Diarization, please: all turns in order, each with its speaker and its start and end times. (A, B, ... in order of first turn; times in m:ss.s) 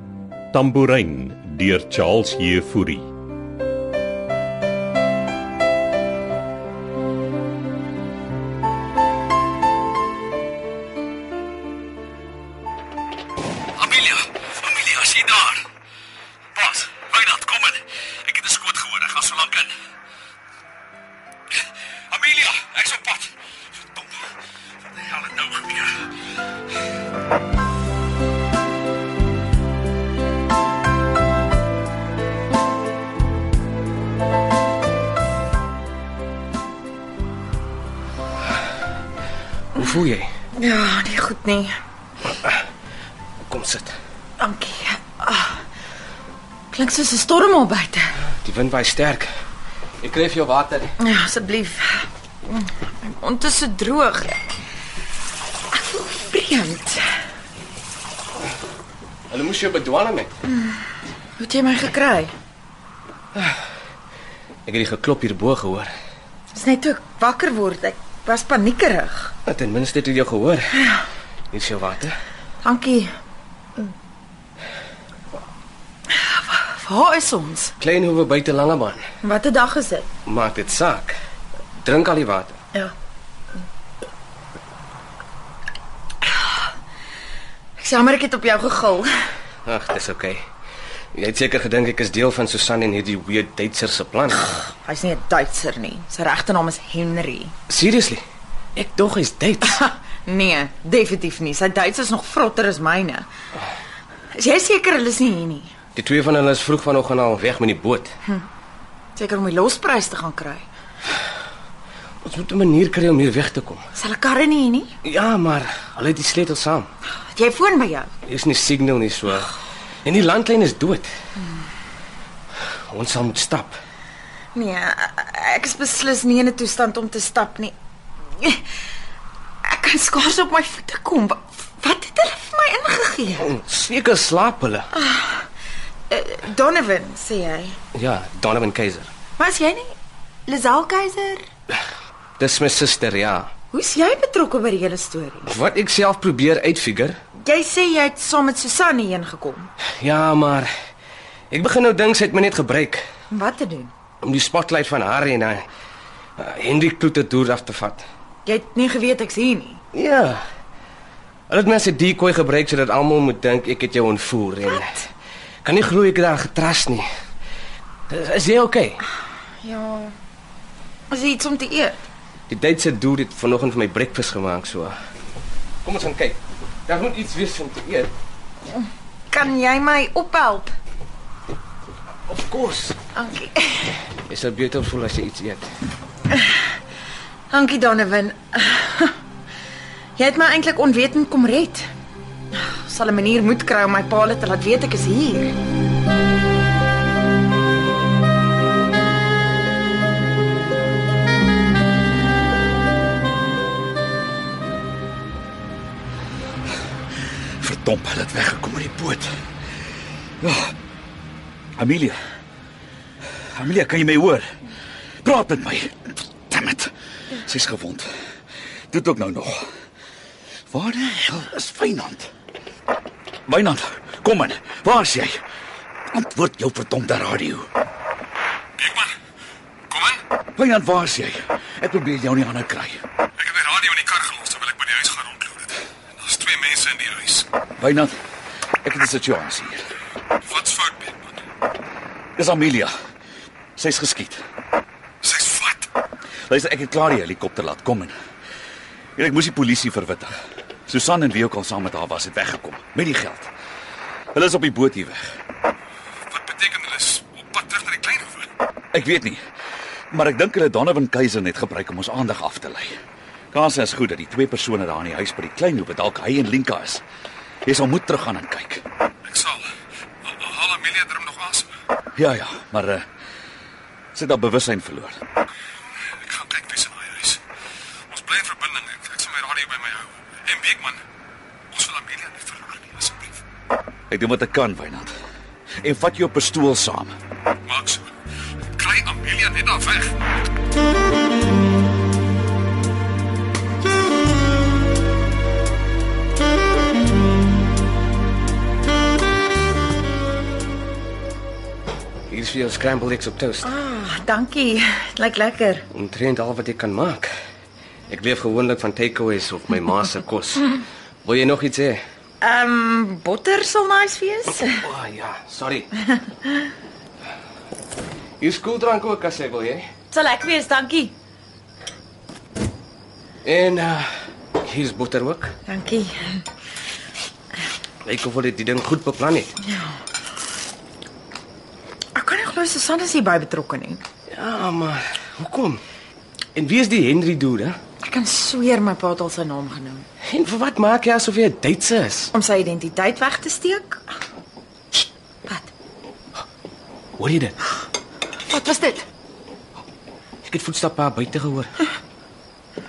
0:00.5-0:03.1 A
0:13.8-0:15.6 B
0:16.6-0:19.7 B
0:22.1-0:23.3 B
0:23.9-0:24.3 B
0:24.9-0:26.1 B
0:39.8-0:40.3 C
0:40.6-0:41.7 D
0:43.4-0:44.0 C
0:44.4-0:45.6 D
0:46.7-0:48.1 D
0:48.4-0:49.3 C
0:50.0-0:50.9 C
0:51.0-0:54.4 D
0:55.7-0:57.0 D
0:59.3-1:00.3 C
1:00.5-1:00.8 D
1:01.4-1:02.3 D
1:04.7-1:05.9 C
1:06.5-1:09.3 D
1:09.5-1:10.8 C
1:11.5-1:12.2 C
1:12.6-1:13.1 D
1:16.1-1:17.8 D
1:17.8-1:19.0 C
1:19.2-1:20.1 D
1:20.3-1:21.2 C
1:21.8-1:22.6 C
1:27.8-1:29.1 D
1:29.6-1:30.4 C
1:31.2-1:34.7 C
1:34.7-1:37.5 D
1:37.7-1:38.2 C
1:38.8-1:39.8 C
1:39.6-1:43.3 D
1:44.3-1:45.7 D
1:46.0-1:48.1 C
1:49.2-1:50.7 D
1:52.2-1:53.8 C
1:54.0-1:55.0 D
1:55.0-1:56.9 C
1:57.3-1:58.1 D
1:58.3-2:01.1 C
2:02.9-2:03.8 C
2:04.5-2:07.8 D
2:09.6-2:13.5 D
2:13.4-2:14.9 C
2:14.9-2:15.5 D
2:16.1-2:17.8 D
2:18.0-2:19.1 C
2:19.4-2:19.9 D
2:20.5-2:21.5 D
2:22.4-2:23.5 C
2:23.7-2:25.5 D
2:25.4-2:27.2 C
2:27.4-2:29.7 D
2:30.0-2:30.7 C
2:31.5-2:33.0 C
2:33.3-2:33.9 D
2:34.2-2:35.6 C
2:36.4-2:38.0 C
2:38.4-2:39.8 D
2:39.9-2:40.4 C
2:41.5-2:45.0 C
2:45.6-2:47.1 C
2:48.1-2:49.0 C
2:49.6-2:50.2 D
2:51.1-2:52.0 D
2:52.5-2:55.0 C
2:55.8-2:58.1 C
2:58.7-3:00.7 D
3:02.3-3:03.0 C
3:03.2-3:04.0 D
3:04.3-3:05.7 C
3:06.3-3:06.6 D
3:07.5-3:09.2 D
3:10.2-3:11.9 D
3:12.5-3:15.6 D
3:27.6-3:29.3 B
3:30.4-3:30.7 B
3:31.8-3:32.2 B
3:33.5-3:34.5 B
3:35.2-3:38.1 B
3:38.9-3:39.7 B
3:40.7-3:42.3 B
3:43.5-3:45.4 B
3:46.1-3:47.7 B
3:48.8-3:49.1 E
3:49.9-3:50.2 E
3:50.6-3:53.0 B
3:53.4-3:57.5 E
3:57.8-3:58.1 B
3:58.8-3:59.8 B
4:00.4-4:01.4 E
4:02.4-4:02.9 B
4:03.8-4:04.4 B
4:05.2-4:05.9 E
4:06.5-4:08.1 B
4:09.2-4:10.3 B
4:10.9-4:13.5 B
4:14.3-4:15.2 B
4:16.3-4:18.5 E
4:18.9-4:19.4 B
4:20.1-4:22.9 B
4:23.5-4:27.0 B
4:27.6-4:28.8 B
4:29.2-4:29.7 E
4:30.2-4:31.7 E
4:32.2-4:33.0 B
4:34.1-4:35.2 B
4:36.2-4:37.4 E
4:38.1-4:41.0 E
4:41.7-4:43.4 E
4:44.1-4:45.1 B
4:45.8-4:47.1 B
4:47.7-4:48.1 E
4:48.7-4:50.2 E
5:02.3-5:03.7 C
5:03.6-5:05.9 D
5:05.9-5:07.3 C
5:08.1-5:12.0 C
5:12.4-5:14.8 D
5:14.6-5:15.9 C
5:18.4-5:19.9 C
5:20.1-5:21.1 D
5:23.4-5:24.1 C
5:24.6-5:25.6 C
5:25.7-5:26.4 D
5:28.0-5:29.6 C
5:29.7-5:30.0 D
5:32.2-5:34.0 D
5:34.3-5:35.8 C
5:36.6-5:37.8 C
5:38.0-5:40.1 D
5:40.3-5:42.3 C
5:42.3-5:44.0 D
5:45.0-5:45.7 D
5:47.2-5:47.6 C
5:48.5-5:49.1 D
5:50.4-5:51.7 C